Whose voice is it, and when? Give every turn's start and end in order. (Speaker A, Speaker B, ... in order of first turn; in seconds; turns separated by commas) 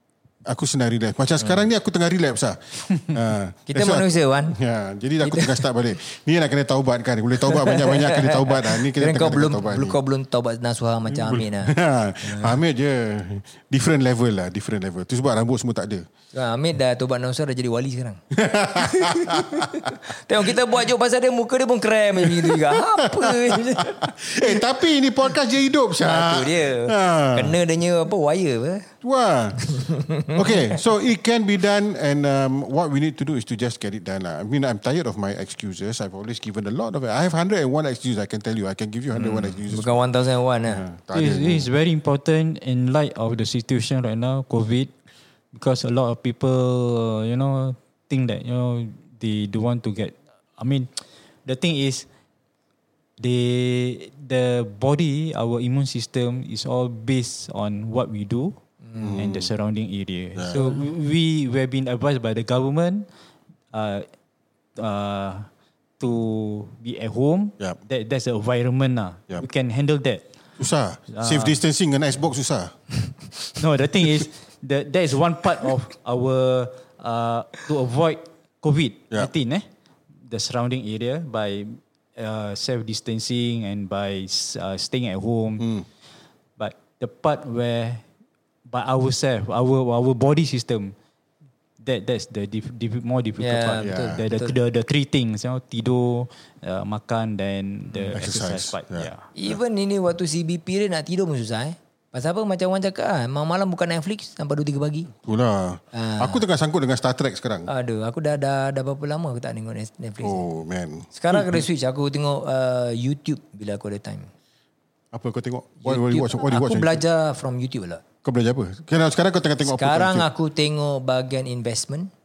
Speaker A: 0.5-10.0, Speaker B: 3.7-4.6, Speaker B: 5.2-5.7, Speaker B: 7.4-12.6, Speaker A: 11.1-16.1, Speaker B: 16.3-18.2, Speaker A: 18.3-20.0, Speaker B: 18.7-24.6, Speaker A: 22.2-27.6, Speaker B: 26.0-28.9, Speaker A: 29.0-29.7, Speaker B: 29.6-30.8, Speaker A: 30.3-40.0, Speaker B: 39.1-40.8, Speaker A: 40.7-41.7, Speaker C: 41.1-44.9, Speaker C: 45.5-50.9, Speaker C: 51.5-52.1, Speaker C: 53.2-58.6, Speaker A: 59.0-59.5, Speaker C: 59.2-63.1, Speaker C: 63.7-64.1, Speaker C: 64.8-65.5, Speaker C: 66.0-70.2, Speaker A: 70.6-72.8, Speaker C: 71.1-71.6, Speaker C: 73.6-79.6, Speaker C: 80.3-85.7, Speaker A: 85.6-85.9, Speaker C: 86.6-88.0, Speaker C: 88.7-91.0, Speaker C: 91.8-99.3, Speaker B: 93.4-94.5, Speaker A: 93.8-94.2, Speaker B: 97.9-98.2, Speaker A: 98.2-99.6, Speaker B: 99.3-105.1, Speaker A: 105.2-107.7, Speaker B: 105.9-106.4, Speaker B: 107.7-110.5, Speaker A: 110.2-111.7, Speaker B: 111.1-114.3, Speaker A: 115.1-117.0, Speaker B: 115.8-118.0, Speaker A: 118.2-120.3, Speaker B: 119.6-122.1